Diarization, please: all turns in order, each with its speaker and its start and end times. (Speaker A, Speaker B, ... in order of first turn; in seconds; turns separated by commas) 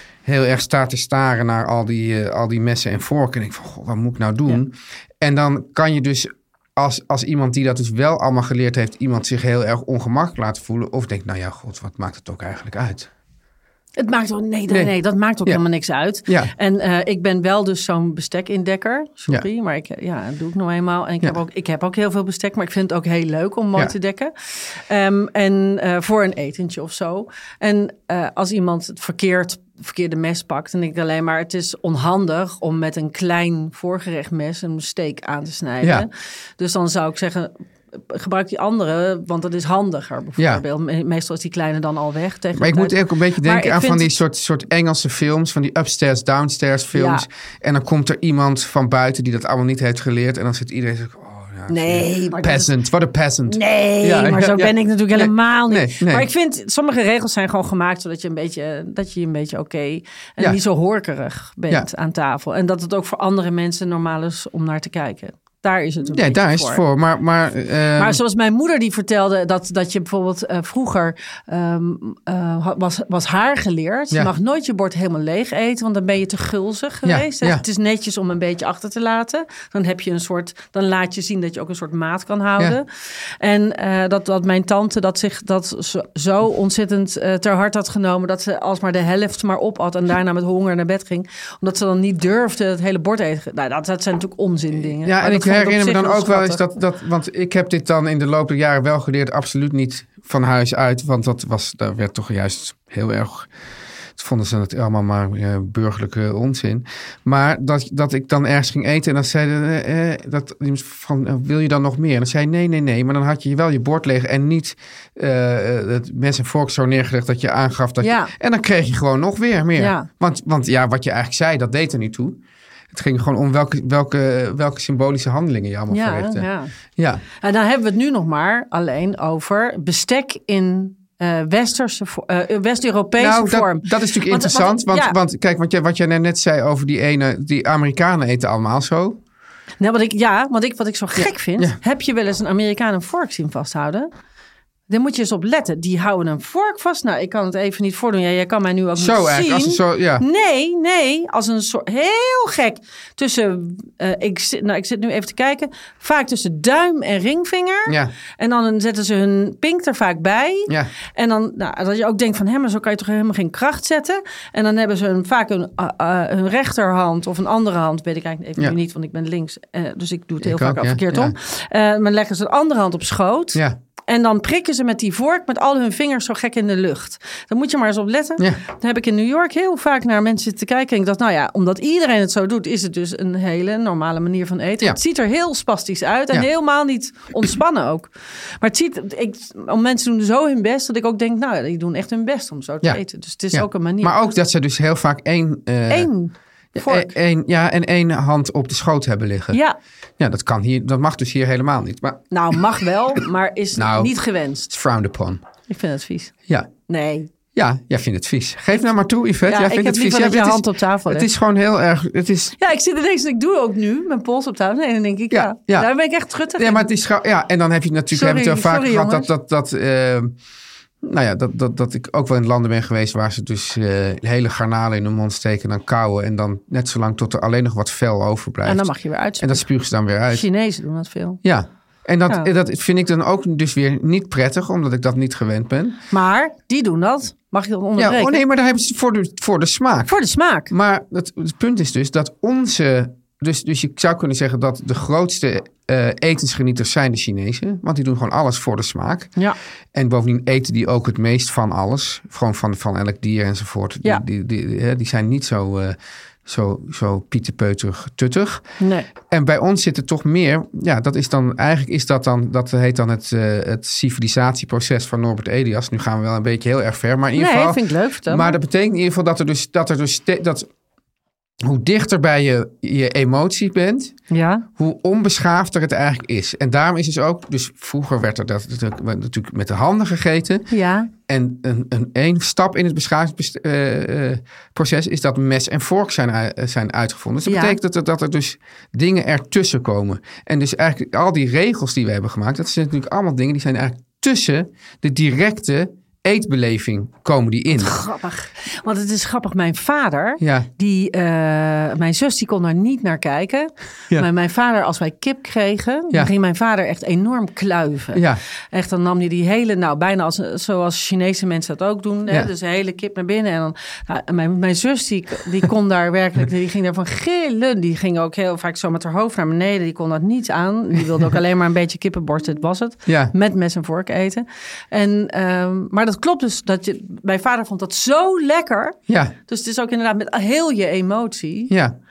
Speaker A: 0.2-13.1, Speaker B: 14.0-44.1, Speaker A: 14.7-14.9, Speaker A: 16.2-16.5, Speaker A: 35.8-36.1, Speaker A: 40.4-40.6, Speaker A: 42.5-56.3, Speaker B: 46.9-47.2, Speaker B: 51.7-52.7, Speaker B: 53.5-66.8, Speaker A: 66.1-68.2, Speaker B: 68.0-96.6, Speaker A: 77.0-77.6, Speaker A: 94.9-103.5, Speaker A: 104.2-122.4, Speaker B: 118.0-118.3, Speaker B: 119.8-120.1, Speaker A: 122.9-126.5, Speaker B: 125.9-126.7, Speaker A: 127.0-127.2, Speaker B: 127.4-135.2, Speaker A: 133.2-139.2, Speaker B: 139.8-144.1, Speaker A: 141.2-141.8, Speaker B: 144.9-188.1, Speaker A: 148.9-150.2, Speaker A: 157.8-158.1, Speaker A: 170.4-171.3, Speaker B: 188.6-194.1, Speaker A: 192.8-196.1, Speaker B: 195.9-197.1, Speaker A: 196.7-199.6, Speaker A: 200.2-202.6, Speaker B: 202.3-204.7, Speaker A: 203.8-204.1, Speaker A: 204.7-205.4, Speaker B: 205.7-206.3, Speaker B: 206.9-207.3, Speaker A: 207.5-212.6, Speaker B: 209.5-211.3, Speaker B: 212.6-216.8, Speaker A: 215.3-215.9, Speaker A: 216.5-220.3, Speaker B: 218.1-219.3, Speaker A: 221.0-230.4, Speaker B: 228.6-229.7, Speaker B: 230.3-231.4, Speaker A: 231.4-236.0, Speaker B: 236.1-238.4, Speaker A: 237.9-240.2, Speaker B: 240.1-240.7, Speaker A: 240.7-249.3, Speaker A: 249.9-258.6, Speaker B: 258.8-259.1, Speaker A: 259.2-270.7, Speaker B: 267.3-268.6, Speaker A: 271.6-274.1, Speaker B: 274.3-274.6, Speaker A: 274.8-280.7, Speaker B: 280.7-281.1, Speaker A: 281.2-297.9, Speaker B: 287.4-287.8, Speaker B: 297.7-331.7, Speaker A: 300.4-300.7, Speaker A: 308.1-308.4, Speaker A: 323.1-323.3, Speaker A: 329.1-329.3, Speaker A: 331.7-331.9